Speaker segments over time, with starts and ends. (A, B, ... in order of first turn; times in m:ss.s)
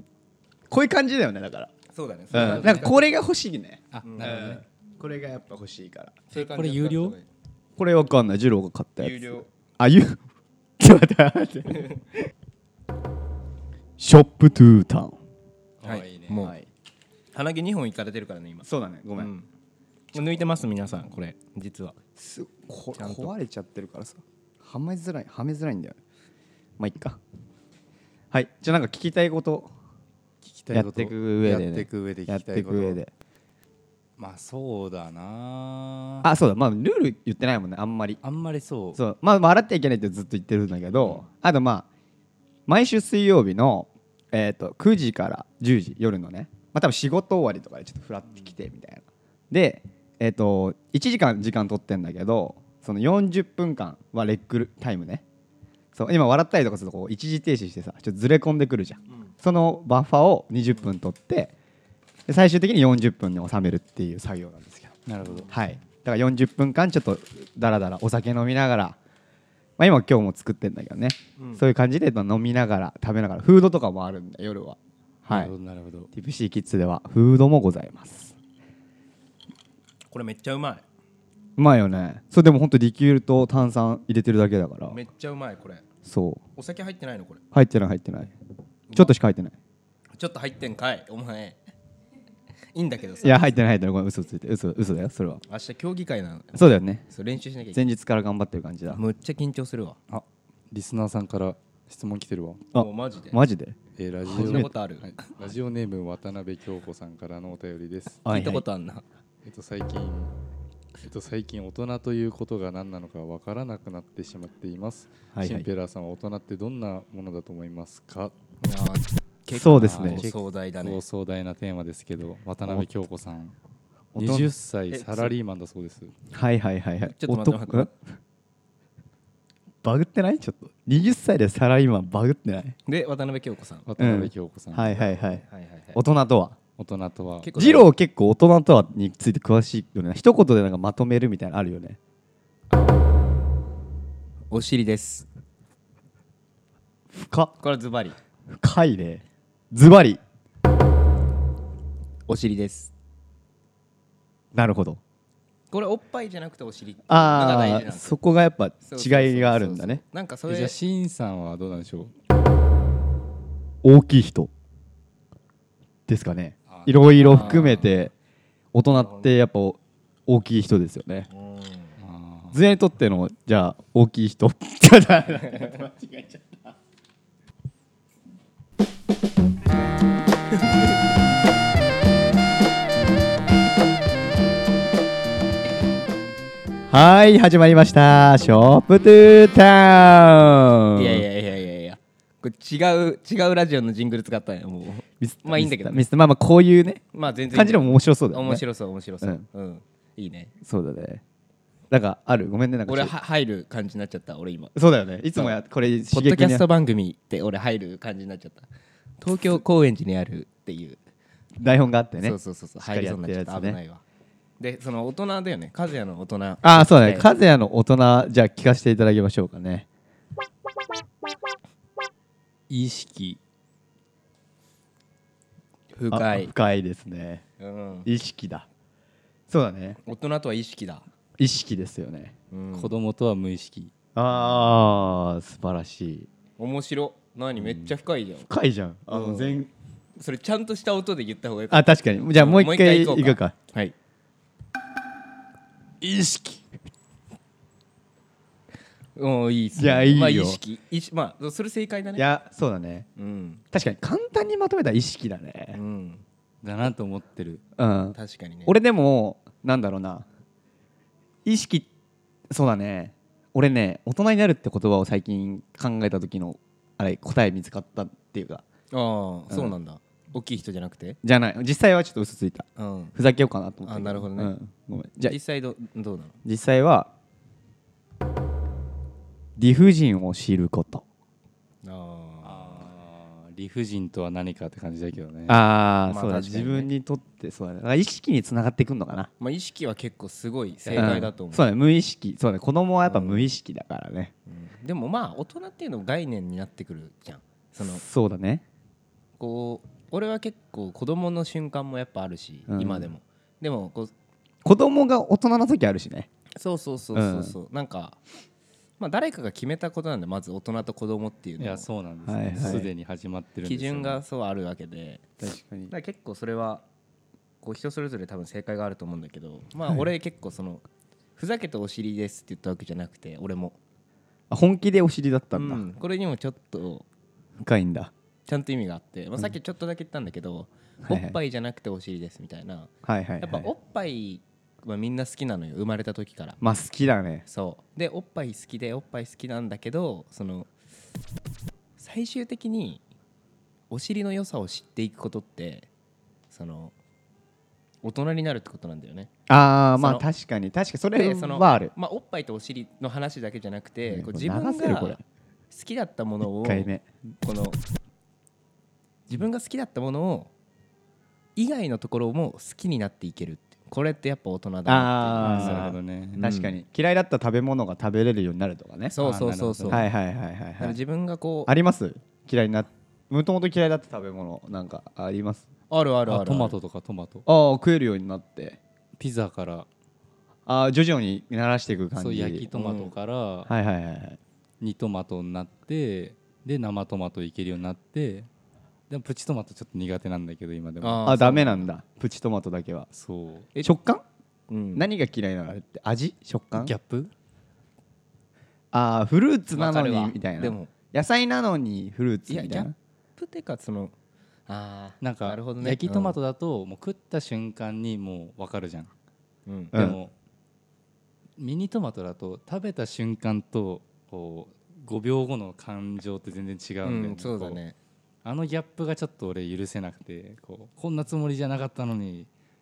0:00.7-0:01.7 A
0:01.9-0:03.1 B
0:02.3-0:02.9 C
0:02.3-0:06.2 A
0:03.9-0:04.6 C
0:04.0-0:04.6 B
0:06.3-0:07.3 B
0:06.3-0:07.2 C
0:07.8-0:10.2 A
0:09.0-0:09.5 B
0:10.8-0:12.3 A
0:14.0-0:15.2 A
0:15.8-0:16.5 C
0:15.8-0:16.6 B
0:16.3-0:16.7 A
0:17.3-0:19.5 B
0:18.6-0:19.3 A
0:20.1-0:22.0 B
0:22.2-0:26.0 A
0:23.0-0:23.3 B
0:26.8-0:27.2 A
0:28.3-0:29.7 A
0:30.4-0:33.0 C
0:30.7-0:33.1 A
0:34.2-0:36.3 C
0:36.2-0:38.2 A
0:38.2-0:39.0 C
0:39.0-0:41.9 A
0:42.7-0:55.2 A
0:55.9-1:01.5 A
1:02.3-1:04.9 A
1:05.0-1:05.5 C
1:05.2-1:05.5 B
1:05.5-1:09.0 A
1:09.8-1:15.5 A
1:11.4-1:11.6 B
1:15.3-1:16.1 C
1:16.1-1:18.4 A
1:20.1-1:20.8 B
1:21.6-1:25.0 A
1:24.9-1:25.8 B
1:26.0-1:26.4 A
1:26.6-1:27.4 B
1:27.5-1:28.3 A
1:28.9-1:29.1 B
1:28.9-1:29.6 A
1:30.2-1:31.6 B
1:32.7-1:33.5 B
1:33.2-1:35.4 A
1:35.5-1:37.9 B
1:36.5-1:37.0 A
1:37.7-1:39.0 A
1:38.9-1:40.2 B
1:40.7-1:42.6 C
1:42.7-1:43.4 B
1:42.7-1:43.8 A
1:44.0-1:48.2 C
1:44.3-1:45.5 B
1:44.3-1:44.7 A
1:48.2-1:48.6 A
1:48.3-1:49.0 B
1:49.4-1:50.3 C
1:51.0-1:58.3 C
1:55.3-1:55.7 A
1:58.6-2:01.0 B
1:59.5-2:00.3 A
1:59.8-2:03.5 C
2:04.1-2:04.5 A
2:04.2-2:06.1 C
2:04.9-2:05.3 B
2:06.3-2:07.9 A
2:07.0-2:07.9 B
2:09.8-2:12.8 A
2:12.8-2:13.9 B
2:13.8-2:15.0 C
2:14.0-2:15.4 A
2:15.1-2:16.0 B
2:15.9-2:16.6 A
2:16.8-2:17.5 C
2:17.4-2:17.9 B
2:17.5-2:22.0 A
2:22.7-2:23.2 B
2:24.5-2:25.3 B
2:27.1-2:27.5 A
2:27.6-2:28.2 B
2:28.5-2:30.2 A
2:32.3-2:32.9 B
2:34.5-2:35.0 A
2:35.7-2:38.2 B
2:37.1-2:40.0 A
2:38.8-2:40.7 B
2:40.5-2:42.1 C
2:43.8-2:44.5 A
2:46.1-2:48.1 A
2:46.7-2:47.8 C
2:47.2-2:48.1 B
2:48.7-2:51.3 A
2:48.9-2:49.4 B
2:51.3-2:52.0 B
2:52.0-2:52.6 C
2:52.5-2:56.7 A
2:55.4-2:55.8 B
3:06.9-3:11.2 A
3:10.9-3:16.0 B
3:15.2-3:18.6 A
3:17.1-3:20.5 B
3:20.6-3:21.2 A
3:21.9-3:23.1 A
3:22.9-3:24.7 B
3:24.7-3:26.6 A
3:25.3-3:25.6 B
3:26.1-3:28.7 B
3:29.2-3:31.0 B
3:31.6-3:33.8 A
3:32.2-3:34.0 B
3:34.6-3:37.3 B
3:36.6-3:39.9 A
3:42.7-3:43.4 C
3:45.9-3:46.5 B
3:46.1-3:47.4 A
3:47.6-3:48.1 B
3:48.0-3:48.7 A
3:49.5-3:50.0 A
3:50.0-3:51.0 B
3:51.4-3:52.3 A
3:52.5-3:52.9 B
3:52.7-3:53.9 C
3:54.1-3:56.3 A
3:54.3-3:54.7 B
3:56.6-3:58.5 B
3:57.6-3:57.9 A
3:58.5-3:59.7 A
3:59.1-3:59.6 B
4:00.2-4:03.9 B
4:01.7-4:03.5 A
4:06.0-4:06.6 C
4:09.2-4:12.3 B
4:09.8-4:10.6 A
4:12.2-4:13.1 A
4:13.2-4:13.6 B
4:13.7-4:15.8 A
4:15.7-4:16.2 B
4:16.6-4:17.6 C
4:17.8-4:20.2 A
4:18.1-4:18.7 B
4:21.4-4:21.9 A
4:22.5-4:28.6 A
4:28.9-4:31.2 B
4:31.2-4:35.4 A
4:32.8-4:33.1 B
4:33.8-4:34.5 B
4:35.2-4:36.4 B
4:36.4-4:37.1 A
4:39.6-4:41.0 A
4:41.8-4:42.9 B
4:42.4-4:45.6 C
4:45.5-4:49.3 A
4:46.1-4:46.9 B
4:49.4-4:51.7 B
4:50.9-4:51.2 C
4:50.9-4:54.3 A
4:53.0-4:53.5 B
4:54.5-4:58.0 B
4:57.8-4:58.6 A
4:59.4-5:04.1 B
5:02.7-5:03.1 A
5:04.6-5:06.3 A
5:06.6-5:08.2 B
5:07.1-5:07.5 A
5:09.0-5:11.9 B
5:11.6-5:14.2 C
5:12.2-5:12.9 A
5:13.6-5:15.2 B
5:15.4-5:15.9 A
5:15.9-5:16.8 B
5:17.6-5:20.8 B
5:21.4-5:23.8 B
5:24.5-5:25.8 A
5:25.5-5:27.0 B
5:27.6-5:28.1 A
5:28.4-5:36.6 B
5:31.0-5:31.4 A
5:33.0-5:33.7 A
5:36.6-5:37.4 A
5:37.4-5:40.7 B
5:42.0-5:43.0 B
5:43.9-5:45.9 B
5:46.5-5:46.9 B
5:48.0-5:49.3 B
5:49.5-5:51.9 A
5:50.0-5:50.3 B
5:51.1-5:55.2 B
5:54.1-5:55.2 A
5:55.7-5:56.9 B
5:56.6-5:57.0 A
5:57.4-5:57.8 B
5:59.3-6:00.5 B
6:01.6-6:06.8 B
6:04.8-6:09.1 A
6:05.4-6:06.4 C
6:09.1-6:10.0 B
6:09.2-6:10.0 C
6:09.9-6:11.0 A
6:10.8-6:11.7 B
6:11.7-6:15.6 A
6:15.9-6:16.8 B
6:16.3-6:17.4 C
6:17.4-6:18.8 A
6:19.2-6:19.9 C
6:20.6-6:22.7 A
6:22.1-6:23.7 C
6:22.7-6:23.1 B
6:23.7-6:24.4 A
6:24.8-6:28.5 C
6:29.1-6:31.4 C
6:31.0-6:31.9 B
6:31.2-6:33.1 A
6:33.1-6:33.7 C
6:33.8-6:34.2 A
6:34.7-6:35.1 B
6:34.9-6:36.9 A
6:36.7-6:37.3 C
6:38.9-6:42.9 A
6:39.7-6:40.9 B
6:42.5-6:44.1 B
6:44.7-6:46.4 B
6:45.2-6:49.1 C
6:49.7-6:50.0 B
6:49.9-6:50.2 A
6:49.9-6:50.3 C
6:51.6-6:57.8 C
6:57.0-6:58.0 B
6:58.4-7:02.5 C